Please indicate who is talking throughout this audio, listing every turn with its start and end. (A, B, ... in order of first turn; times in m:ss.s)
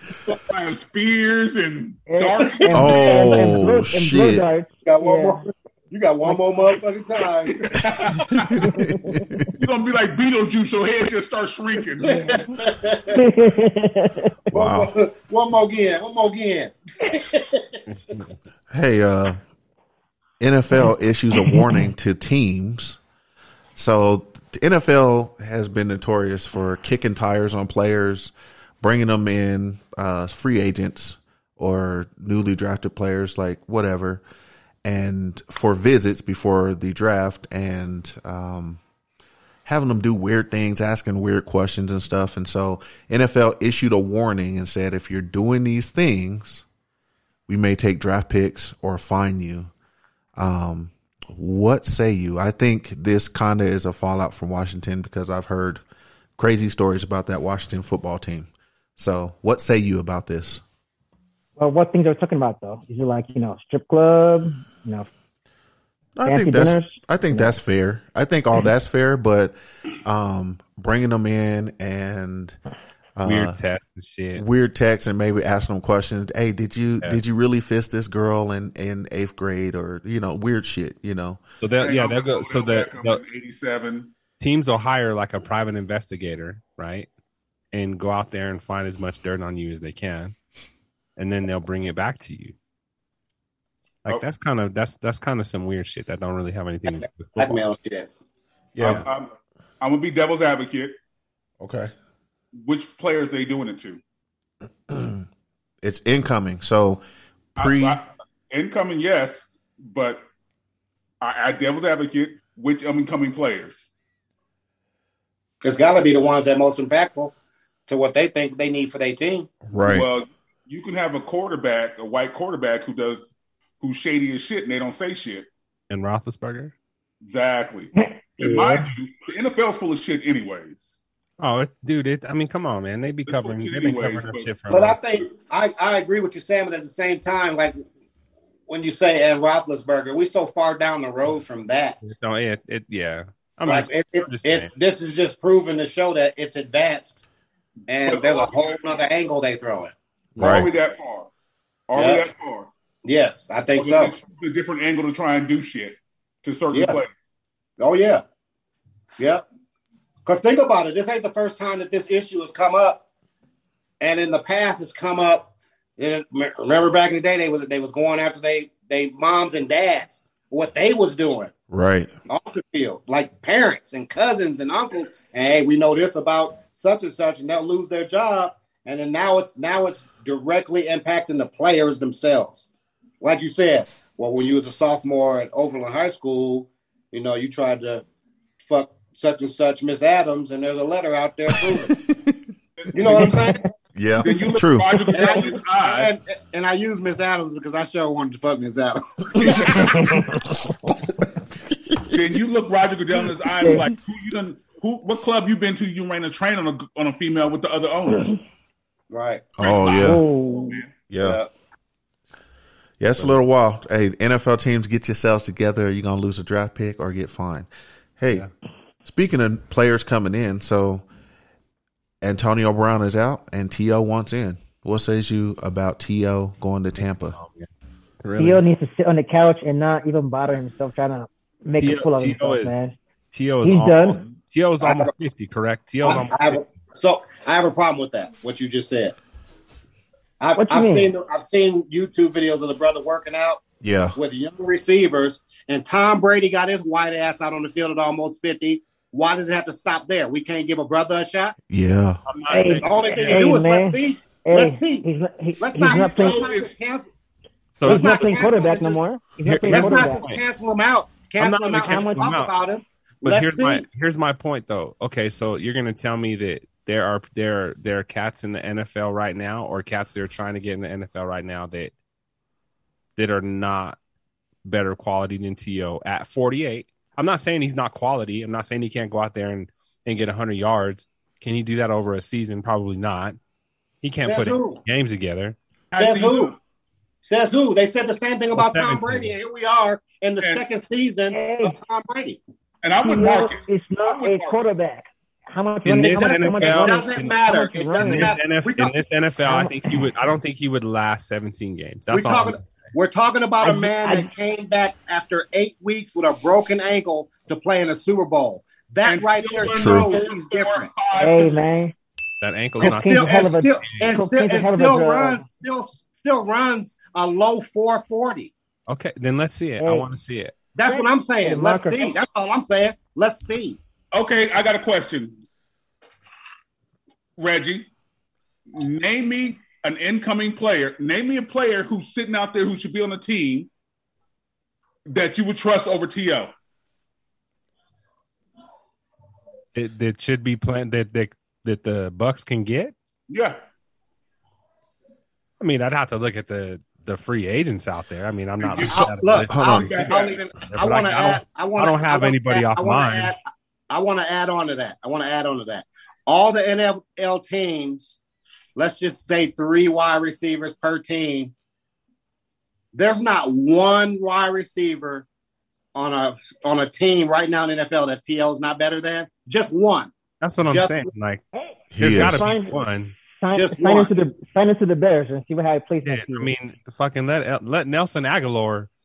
0:00.3-0:03.5 A
0:02.1-0:05.4 B
0:02.7-0:04.4 C
0:04.8-0:07.6 D
0:07.5-0:08.6 A
0:08.4-0:09.5 C
0:08.6-0:09.2 B
0:09.6-0:12.4 A
0:12.0-0:12.4 B
0:12.3-0:13.2 D
0:13.1-0:14.3 B
0:14.5-0:14.9 C
0:14.5-0:17.8 D
0:17.9-0:18.3 E
0:18.7-0:19.4 C
0:20.4-0:23.0 C
0:23.8-0:34.2 C
0:34.8-0:38.8 C
0:39.6-0:46.6 C
0:47.5-0:49.7 C
0:50.4-0:55.8 C
0:56.4-1:00.6 C
1:01.6-1:05.1 B
1:06.2-1:12.6 C
1:06.2-1:07.5 B
1:13.2-1:13.6 C
1:13.2-1:14.4 E
1:14.3-1:21.4 C
1:21.6-1:23.2 E
1:21.8-1:24.1 A
1:24.4-1:27.1 E
1:27.7-1:30.3 E
1:31.2-1:32.5 E
1:34.0-1:37.6 E
1:36.9-1:38.1 D
1:38.7-1:39.0 C
1:38.8-1:39.3 A
1:39.8-1:41.0 A
1:41.6-1:41.9 C
1:42.6-1:44.0 A
1:44.9-1:45.2 C
1:45.8-1:47.0 C
1:47.6-1:48.0 C
1:47.6-1:50.2 A
1:51.2-1:53.8 A
1:55.6-1:57.3 D
1:57.9-1:59.5 D
1:59.6-2:00.1 C
1:59.8-2:03.3 A
2:03.8-2:05.5 A
2:05.9-2:06.7 E
2:07.2-2:10.9 A
2:08.0-2:08.9 B
2:11.4-2:15.0 E
2:13.2-2:14.5 A
2:14.7-2:17.8 D
2:18.7-2:22.0 D
2:22.0-2:24.7 E
2:23.7-2:27.2 D
2:27.9-2:29.9 D
2:28.0-2:28.8 A
2:30.4-2:30.7 C
2:30.4-2:31.3 A
2:31.9-2:32.7 A
2:31.9-2:32.2 D
2:33.0-2:34.1 D
2:33.8-2:37.1 A
2:36.7-2:37.0 D
2:37.8-2:38.2 D
2:39.2-2:39.4 D
2:40.2-2:43.0 D
2:44.0-2:51.5 D
2:51.7-2:52.1 C
2:52.3-3:02.6 D
3:03.2-3:08.0 D
3:08.6-3:12.0 D
3:12.8-3:13.5 A
3:12.9-3:13.6 D
3:13.9-3:15.1 C
3:14.2-3:16.1 A
3:15.1-3:20.0 D
3:19.5-3:19.8 A
3:19.9-3:20.2 B
3:22.1-3:28.4 A
3:29.1-3:29.5 D
3:29.6-3:30.9 A
3:29.6-3:30.2 C
3:30.0-3:30.8 B
3:31.1-3:31.4 C
3:31.2-3:31.5 D
3:33.0-3:38.5 C
3:39.0-3:41.0 C
3:42.2-3:47.4 C
3:47.3-3:47.7 E
3:48.2-3:48.6 E
3:48.4-3:53.0 B
3:51.8-3:52.7 E
3:53.3-3:56.6 E
3:53.6-3:54.2 B
3:54.8-3:55.1 D
3:56.0-3:59.2 D
4:00.4-4:03.6 D
4:00.6-4:01.1 B
4:03.8-4:04.2 C
4:04.1-4:11.5 D
4:11.7-4:12.2 C
4:12.3-4:13.6 E
4:12.5-4:16.4 B
4:12.8-4:15.0 D
4:15.6-4:17.1 D
4:16.1-4:16.7 A
4:17.8-4:18.5 E
4:17.8-4:19.0 D
4:17.8-4:20.2 B
4:19.4-4:20.4 E
4:19.7-4:23.8 D
4:21.4-4:22.5 E
4:23.2-4:31.9 E
4:33.2-4:34.0 E
4:34.6-4:43.4 E
4:44.0-4:45.6 E
4:44.2-4:44.8 D
4:45.9-4:46.6 A
4:46.0-4:46.5 D
4:47.2-4:52.4 D
4:48.5-4:49.3 E
4:51.3-4:51.8 B
4:52.8-4:54.6 A
4:53.0-4:58.3 B
4:55.8-4:57.3 E
4:56.0-4:58.9 D
4:58.0-5:02.6 E
4:59.4-4:59.9 B
5:02.1-5:10.9 D
5:03.6-5:04.3 B
5:09.0-5:11.6 A
5:09.7-5:10.1 C
5:11.1-5:11.9 B
5:12.4-5:14.0 E
5:12.8-5:15.4 B
5:12.8-5:18.5 D
5:18.9-5:20.5 E
5:19.8-5:20.0 B
5:20.7-5:23.8 D
5:20.9-5:22.1 B
5:24.1-5:25.4 A
5:27.4-5:27.9 A
5:28.7-5:33.7 A
5:35.1-5:36.5 A
5:39.7-5:42.9 E
5:43.3-5:43.6 A
5:45.6-5:49.5 E
5:48.6-5:49.1 A
5:48.8-5:58.2 D
5:49.5-5:49.9 C
5:49.6-5:50.4 A
5:50.7-5:53.3 E
5:58.8-6:01.5 D
6:02.9-6:05.2 D
6:05.9-6:10.1 D
6:10.4-6:11.4 E
6:10.6-6:11.1 D
6:11.5-6:12.8 B
6:11.9-6:12.5 C
6:12.0-6:13.1 E
6:13.4-6:16.5 B
6:13.5-6:14.1 D
6:16.0-6:18.9 E